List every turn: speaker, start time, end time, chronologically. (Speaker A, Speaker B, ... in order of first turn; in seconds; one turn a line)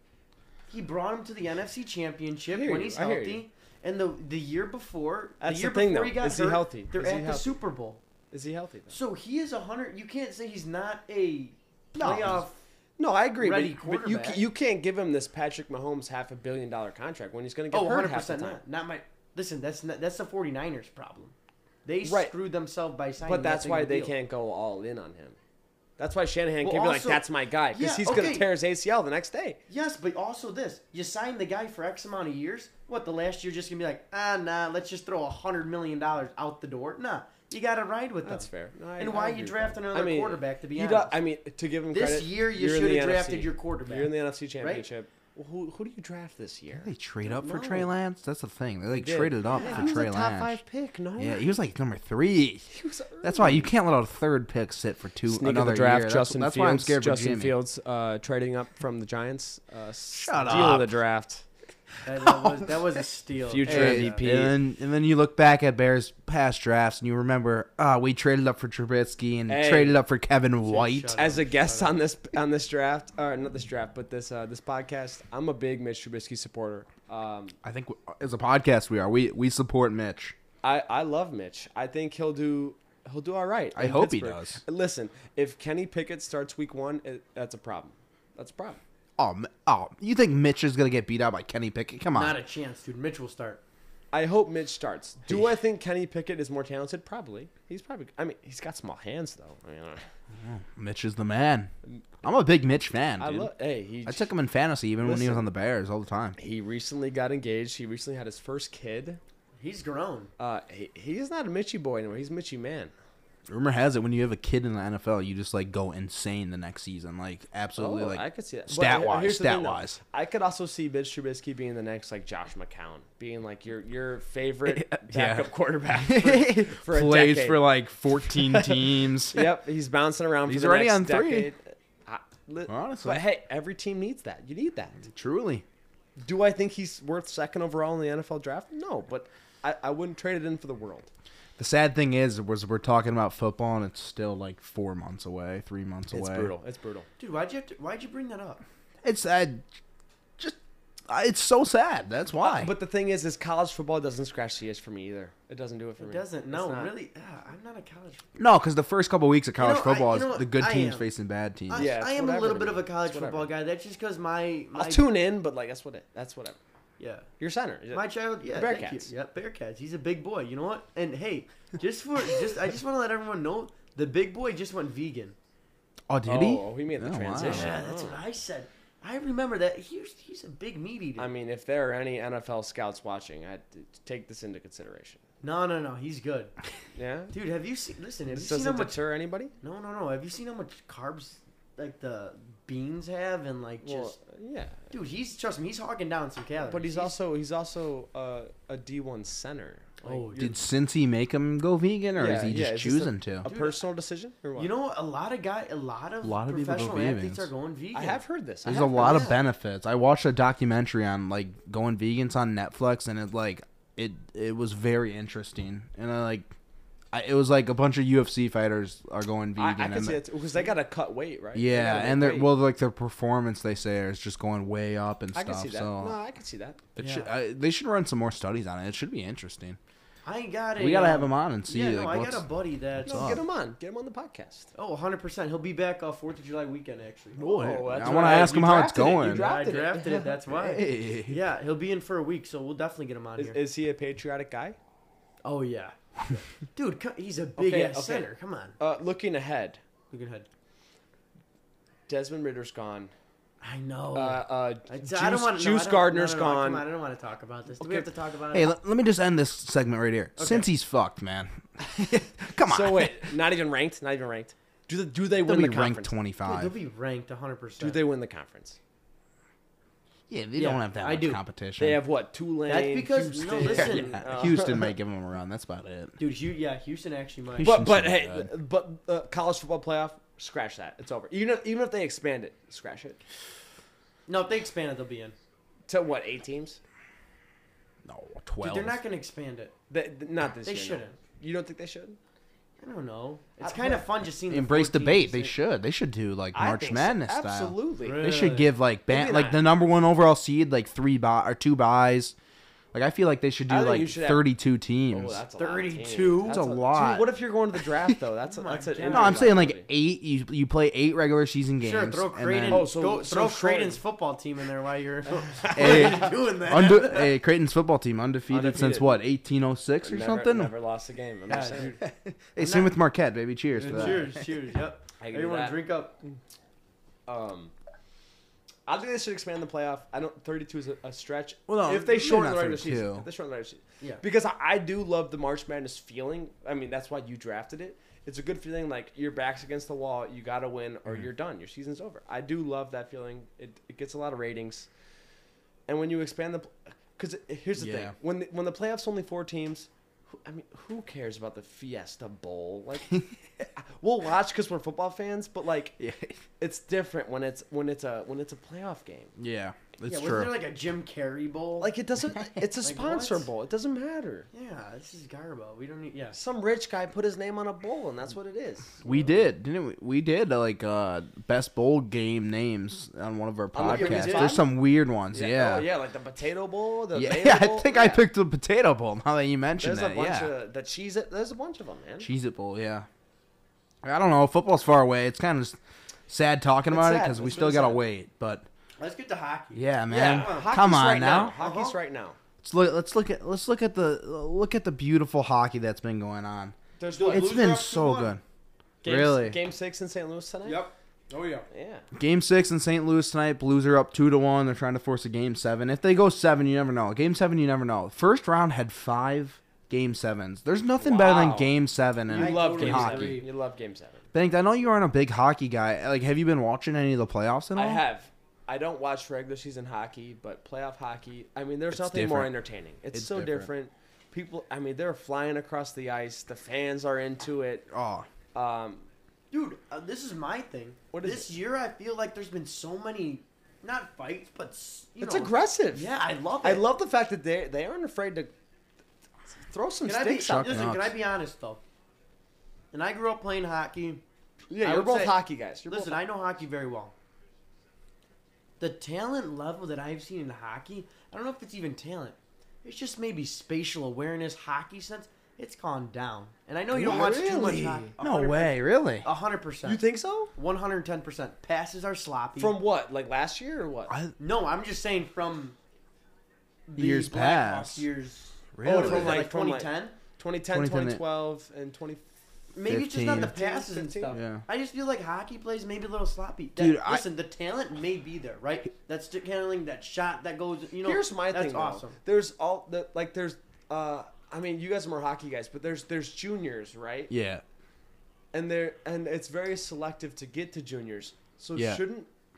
Speaker A: 0.7-8.0
Speaker B: 2.5-3.4
Speaker B: 5.4-7.5
Speaker B: 8.3-9.0
Speaker A: 8.9-12.6
Speaker C: 11.9-12.4
Speaker B: 13.0-18.6
Speaker A: 13.4-14.4
Speaker A: 17.7-21.3
Speaker A: 21.9-24.1
Speaker B: 22.0-22.3
Speaker B: 23.2-25.4
Speaker B: 26.0-29.6
Speaker A: 26.6-28.5
Speaker A: 29.7-41.2
Speaker B: 38.2-46.9
Speaker A: 41.9-44.9
Speaker C: 46.7-50.6
Speaker A: 47.2-47.9
Speaker B: 48.9-51.5
Speaker A: 49.5-49.9
Speaker C: 51.2-52.7
Speaker B: 52.7-53.7
Speaker C: 53.2-57.6
Speaker B: 55.2-61.4
Speaker C: 60.2-60.9
Speaker A: 62.0-64.2
Speaker B: 63.5-64.5
Speaker C: 63.6-71.2
Speaker B: 69.5-70.0
Speaker A: 70.6-72.0
Speaker B: 71.2-77.5
Speaker C: 77.6-80.3
Speaker B: 80.6-88.8
Speaker C: 83.7-84.6
Speaker C: 89.2-92.4
Speaker A: 92.1-93.6
Speaker B: 94.1-100.0
Speaker C: 100.3-101.7
Speaker C: 102.2-103.5
Speaker B: 103.2-104.3
Speaker C: 104.0-106.4
Speaker B: 105.0-105.5
Speaker B: 106.4-109.2
Speaker A: 109.6-110.3
Speaker B: 110.4-112.9
Speaker C: 113.5-120.0
Speaker B: 117.8-127.6
Speaker C: 124.6-129.6
Speaker B: 128.2-135.1
Speaker C: 130.4-131.5
Speaker C: 132.7-133.2
Speaker C: 135.0-135.6
Speaker B: 136.2-141.1
Speaker C: 141.6-146.5
Speaker B: 146.1-147.1
Speaker A: 147.2-148.6
Speaker C: 149.0-149.6
Speaker C: 151.1-152.7
Speaker B: 152.4-156.9
Speaker A: 156.0-158.2
Speaker C: 158.3-161.9
Speaker A: 159.6-161.1
Speaker A: 161.7-165.0
Speaker B: 161.7-163.5
Speaker B: 164.7-166.6
Speaker A: 167.0-167.3
Speaker B: 167.4-169.1
Speaker A: 167.9-175.3
Speaker C: 176.1-177.8
Speaker B: 176.2-178.2
Speaker A: 177.4-181.3
Speaker B: 181.2-185.2
Speaker A: 185.4-186.5
Speaker B: 186.9-187.3
Speaker A: 187.3-189.0
Speaker B: 188.3-189.5
Speaker A: 189.6-194.2
Speaker B: 193.8-194.9
Speaker A: 194.9-197.2
Speaker B: 196.6-200.3
Speaker A: 200.0-200.6
Speaker C: 200.3-203.4
Speaker B: 202.1-204.7
Speaker A: 203.4-203.8
Speaker A: 204.6-209.4
Speaker C: 206.2-207.5
Speaker B: 207.9-209.3
Speaker C: 208.7-216.5
Speaker C: 217.1-220.2
Speaker B: 219.6-222.5
Speaker C: 221.5-226.2
Speaker B: 225.3-226.8
Speaker C: 226.9-229.8
Speaker A: 227.0-227.3
Speaker A: 230.2-233.4
Speaker C: 230.8-232.4
Speaker C: 233.0-233.4
Speaker B: 233.1-234.7
Speaker A: 234.8-238.6
Speaker C: 237.4-239.4
Speaker B: 237.4-240.2
Speaker A: 239.2-243.6
Speaker C: 240.0-241.4
Speaker B: 243.4-244.8
Speaker A: 245.4-248.8
Speaker B: 247.6-249.8
Speaker A: 250.1-250.5
Speaker B: 252.1-253.1
Speaker A: 253.6-258.7
Speaker B: 254.1-256.9
Speaker B: 257.8-258.1
Speaker C: 258.5-263.3
Speaker A: 260.4-260.7
Speaker B: 262.6-266.1
Speaker C: 265.4-266.7
Speaker A: 266.4-268.0
Speaker B: 267.8-268.8
Speaker C: 270.3-272.0
Speaker A: 270.6-271.4
Speaker B: 271.8-274.9
Speaker A: 272.6-274.6
Speaker C: 273.6-276.2
Speaker A: 276.2-277.7
Speaker C: 277.6-278.5
Speaker B: 277.6-283.2
Speaker A: 284.3-285.3
Speaker B: 285.9-286.8
Speaker C: 288.0-289.0
Speaker A: 288.6-289.7
Speaker B: 289.9-292.2
Speaker A: 290.6-291.2
Speaker A: 292.8-295.6
Speaker B: 293.6-294.1
Speaker C: 294.5-302.4
Speaker B: 296.5-298.3
Speaker A: 298.0-299.5
Speaker B: 299.1-299.6
Speaker C: 302.9-305.4
Speaker B: 303.7-304.5
Speaker B: 305.1-309.9
Speaker A: 305.6-306.6
Speaker C: 306.4-307.3
Speaker A: 308.5-309.6
Speaker C: 309.0-312.9
Speaker A: 311.8-317.3
Speaker B: 312.7-314.0
Speaker B: 315.5-316.3
Speaker C: 315.7-320.7
Speaker B: 318.5-319.2
Speaker B: 320.0-322.0
Speaker A: 321.5-322.0
Speaker C: 322.0-324.3
Speaker A: 322.6-322.9
Speaker A: 323.7-326.1
Speaker B: 323.9-324.2
Speaker B: 325.2-325.8
Speaker B: 327.2-327.7
Speaker B: 328.9-344.9
Speaker C: 331.7-333.2
Speaker B: 345.9-349.9
Speaker C: 347.8-348.1
Speaker B: 350.4-356.0
Speaker C: 356.0-356.4
Speaker B: 356.6-359.3
Speaker C: 359.4-360.5
Speaker A: 360.1-361.9
Speaker B: 361.8-364.5
Speaker A: 362.8-363.5
Speaker A: 364.5-366.4
Speaker B: 366.3-369.0
Speaker C: 369.0-375.9
Speaker A: 369.0-369.3
Speaker B: 373.7-374.7
Speaker A: 373.8-374.6
Speaker B: 375.3-378.2
Speaker C: 377.1-380.5
Speaker B: 379.8-382.3
Speaker C: 382.2-383.1
Speaker C: 384.0-385.8
Speaker C: 386.3-388.7
Speaker B: 386.9-388.0
Speaker A: 389.0-390.7
Speaker C: 389.7-391.6
Speaker B: 390.1-392.4
Speaker A: 391.5-391.9
Speaker C: 392.6-396.8
Speaker B: 397.0-397.6
Speaker A: 397.1-398.4
Speaker C: 397.3-398.4
Speaker B: 399.0-400.9
Speaker C: 399.0-399.6
Speaker A: 400.6-401.6
Speaker B: 401.7-402.1
Speaker C: 402.1-413.4
Speaker B: 411.0-411.8
Speaker B: 412.3-414.2
Speaker A: 412.3-413.5
Speaker C: 414.3-418.0
Speaker B: 417.7-427.9
Speaker C: 421.9-422.5
Speaker C: 423.1-423.7
Speaker C: 427.9-428.3
Speaker B: 428.5-429.1
Speaker A: 429.5-436.8
Speaker B: 431.1-431.5
Speaker B: 435.2-438.5
Speaker B: 439.7-440.8
Speaker A: 440.0-441.8
Speaker C: 440.4-441.1
Speaker A: 442.9-444.2
Speaker B: 444.7-446.2
Speaker A: 444.8-445.3
Speaker A: 445.9-447.1
Speaker A: 448.8-460.0
Speaker B: 456.9-458.1
Speaker C: 456.9-457.5
Speaker C: 458.2-459.2
Speaker B: 459.8-460.5
Speaker A: 460.6-462.8
Speaker B: 462.6-464.1
Speaker C: 464.1-464.3
Speaker A: 464.4-465.8
Speaker A: 466.9-470.1
Speaker C: 466.9-468.1
Speaker C: 468.7-469.4
Speaker B: 468.8-472.3
Speaker C: 470.7-471.2
Speaker A: 472.7-482.2
Speaker C: 472.9-473.5
Speaker B: 473.3-474.4
Speaker C: 474.3-474.6
Speaker C: 476.8-477.2
Speaker B: 481.0-487.3
Speaker C: 487.3-487.6
Speaker B: 488.5-492.3
Speaker C: 491.8-492.0